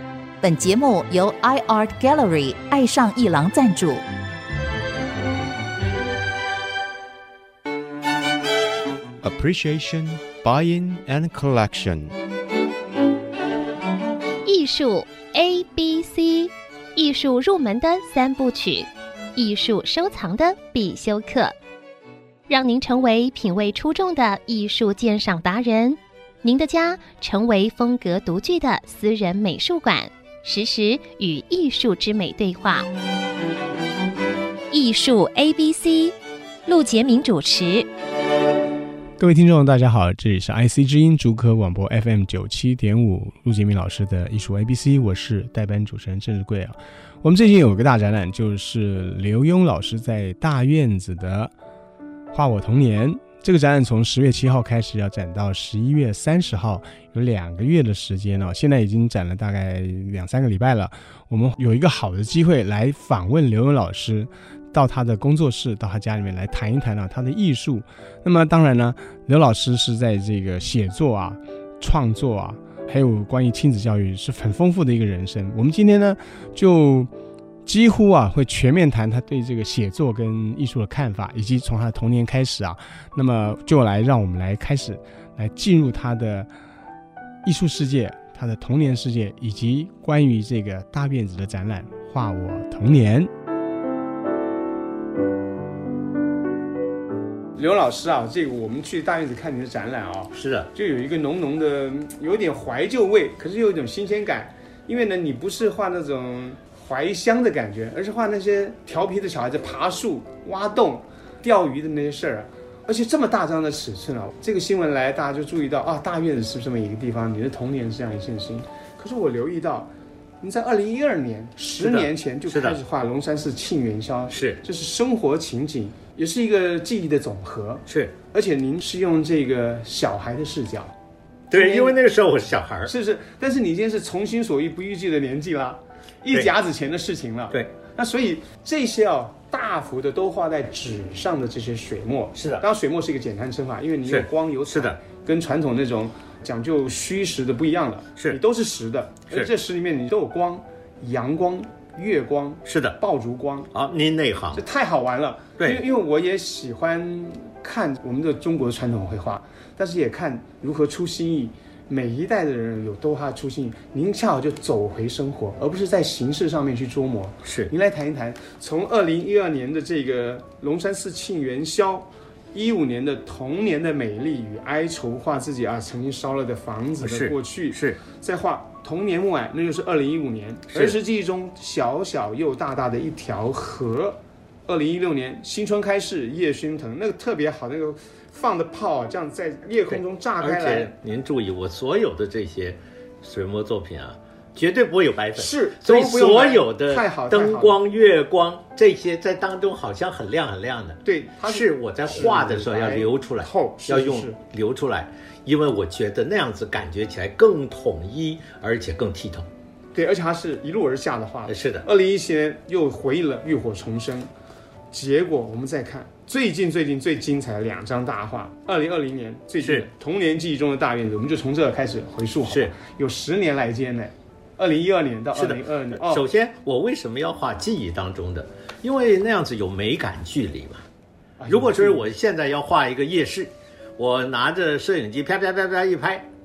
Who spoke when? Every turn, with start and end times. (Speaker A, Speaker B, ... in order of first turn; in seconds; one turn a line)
Speaker A: 0.4-4.0
Speaker B: 9.2-12.1
Speaker C: 14.4-21.5
Speaker C: 22.5-32.9
Speaker C: 34.7-36.1
Speaker C: 36.6-37.9
Speaker D: 39.2-51.5
Speaker D: 52.3-77.1
Speaker D: 77.7-86.5
Speaker D: 87.4-93.3
Speaker D: 97.5-130.9
Speaker E: 100.3-100.7
Speaker E: 121.8-122.8
Speaker E: 124.3-124.6
Speaker E: 127.9-128.1
Speaker E: 131.5-132.9
Speaker D: 131.5-132.0
Speaker D: 132.9-153.7
Speaker E: 142.3-142.6
Speaker E: 144.1-145.0
Speaker E: 152.6-153.0
Speaker E: 153.7-154.6
Speaker D: 154.5-190.9
Speaker E: 155.6-155.8
Speaker E: 167.4-167.7
Speaker E: 177.0-178.0
Speaker E: 180.7-181.0
Speaker E: 189.9-209.5
Speaker D: 195.3-197.8
Speaker D: 201.0-204.4
Speaker D: 209.9-214.3
Speaker E: 211.5-211.9
Speaker D: 214.9-226.2
Speaker E: 219.6-219.9
Speaker E: 222.5-222.7
Speaker E: 225.3-230.8
Speaker D: 231.4-232.0
Speaker E: 231.5-236.3